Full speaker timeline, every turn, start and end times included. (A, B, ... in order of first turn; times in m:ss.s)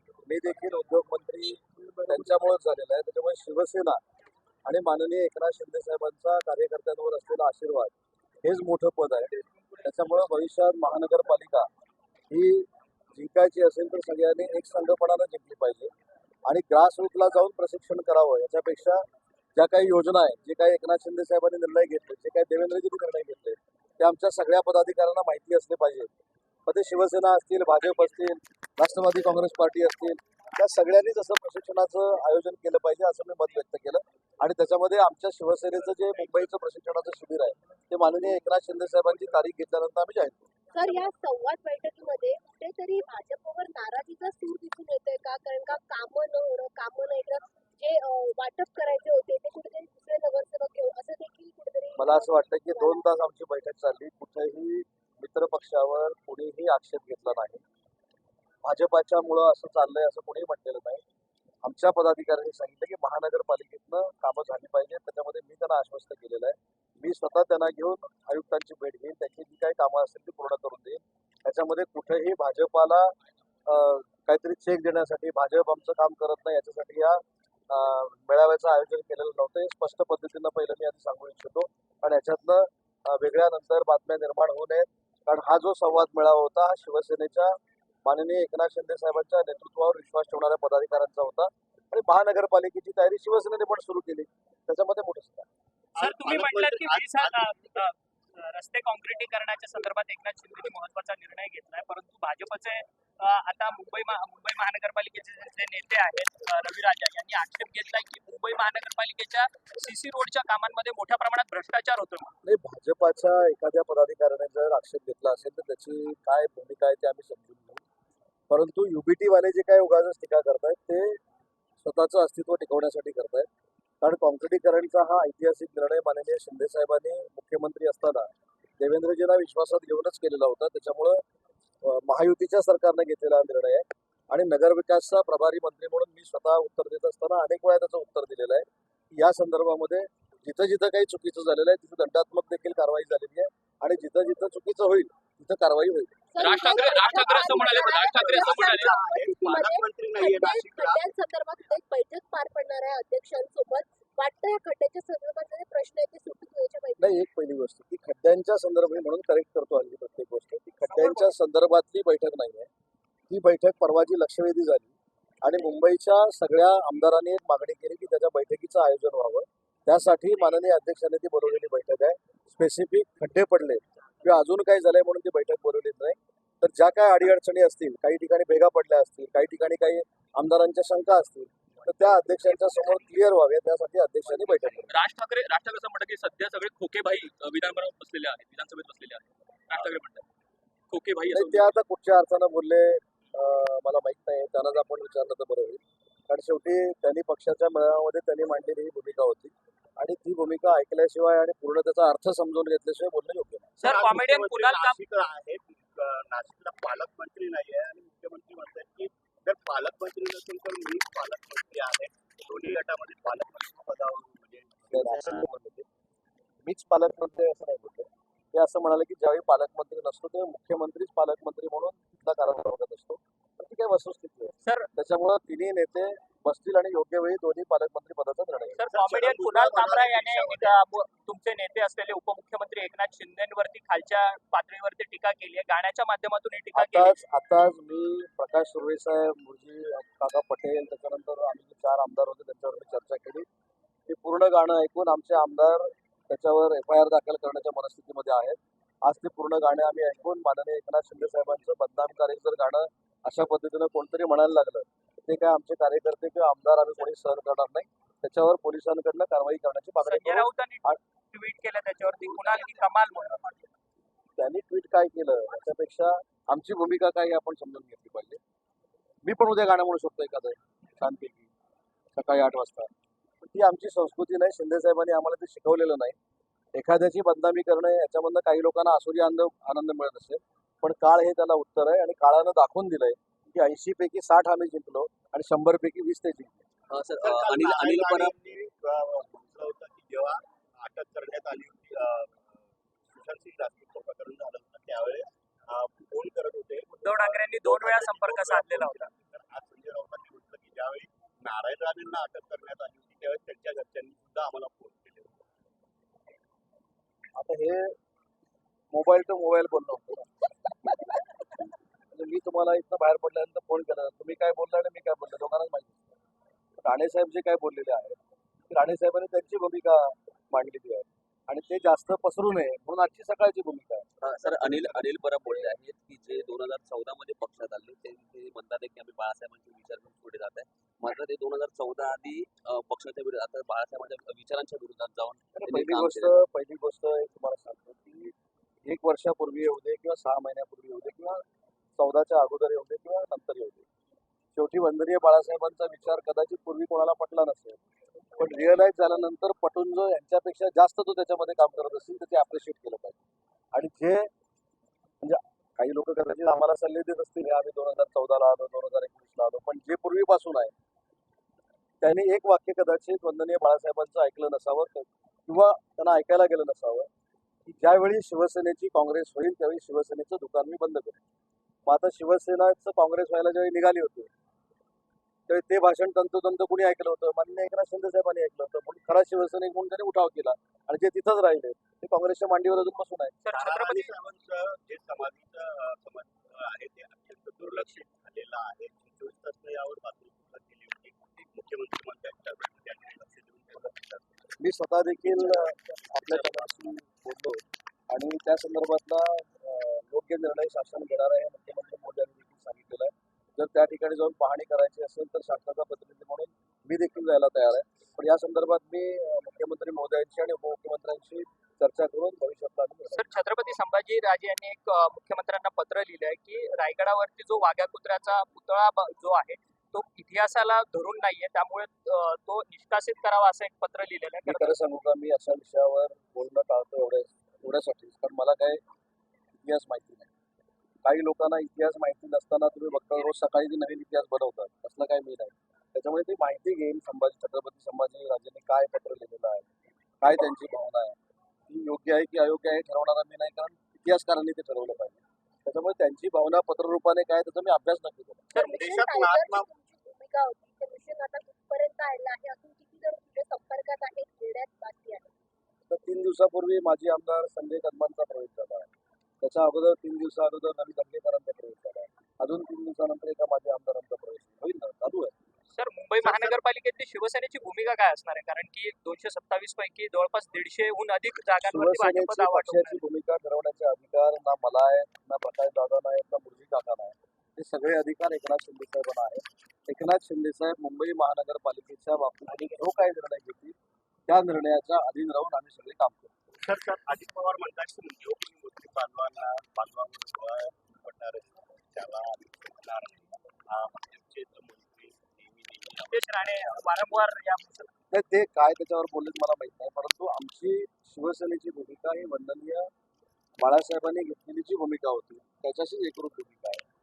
0:00.2-0:04.0 A
0:04.6-0:11.7 A
0:12.3-0:15.9 A
0:16.4-0:26.1 A
0:26.7-0:40.5 A
0:40.7-0:53.1 B
0:52.0-0:57.6 A
0:58.6-1:01.0 A
1:01.6-1:13.1 A
1:13.7-1:35.5 A
1:36.0-1:37.8 C
1:36.0-1:52.3 D
1:52.4-1:57.8 A
1:58.5-2:01.2 A
2:01.8-2:03.5 A
2:04.0-2:11.2 A
2:11.8-2:26.3 A
2:26.3-2:37.2 B
2:26.4-2:29.0 D
2:26.6-2:31.1 C
2:37.0-2:42.7 A
2:40.8-2:41.3 D
2:43.3-3:04.9 A
3:04.9-3:10.2 D
3:10.9-3:11.5 D
3:11.3-3:23.7 A
3:23.8-3:25.0 D
3:23.8-3:35.5 C
3:34.9-3:35.9 A
3:36.6-3:48.8 A
3:44.6-3:44.9 D
3:48.8-3:57.2 D
3:48.9-3:50.8 C
3:56.7-4:03.5 A
4:04.1-4:21.0 A
4:20.0-4:23.6 D
4:24.4-4:28.4 A
4:29.2-4:31.5 A
4:32.1-4:32.9 A
4:33.4-4:36.2 A
4:36.7-4:46.6 A
4:46.9-4:48.4 E
4:47.2-5:05.4 C
4:57.0-4:59.1 D
5:07.3-5:08.0 A
5:08.9-5:10.3 A
5:12.1-5:16.1 A
5:16.8-5:18.2 A
5:18.7-5:25.7 A
5:24.2-5:36.4 E
5:35.5-5:38.3 A
5:38.8-5:41.4 A
5:42.0-5:43.8 A
5:44.5-5:47.8 A
5:48.4-5:53.2 A
5:53.7-5:54.3 A
5:55.2-6:00.8 A
6:02.0-6:07.1 A
6:07.6-6:11.2 A
6:11.8-6:14.3 A
6:15.5-6:23.4 A
6:23.4-6:24.1 D
6:23.5-6:34.4 C
6:34.6-6:53.3 A
6:53.1-7:04.8 D
7:04.4-7:08.8 A
7:09.6-7:10.3 A
7:11.0-7:19.7 A
7:20.2-7:21.2 A
7:21.7-7:28.5 A
7:28.5-7:29.7 C
7:28.5-7:35.3 B
7:35.9-7:45.3 A
7:45.7-7:53.0 D
7:46.2-7:46.5 C
7:51.6-8:03.8 A
8:04.3-8:06.3 A
8:06.6-8:17.1 C
8:16.1-8:17.9 D
8:18.1-8:22.9 A
8:23.6-8:26.8 A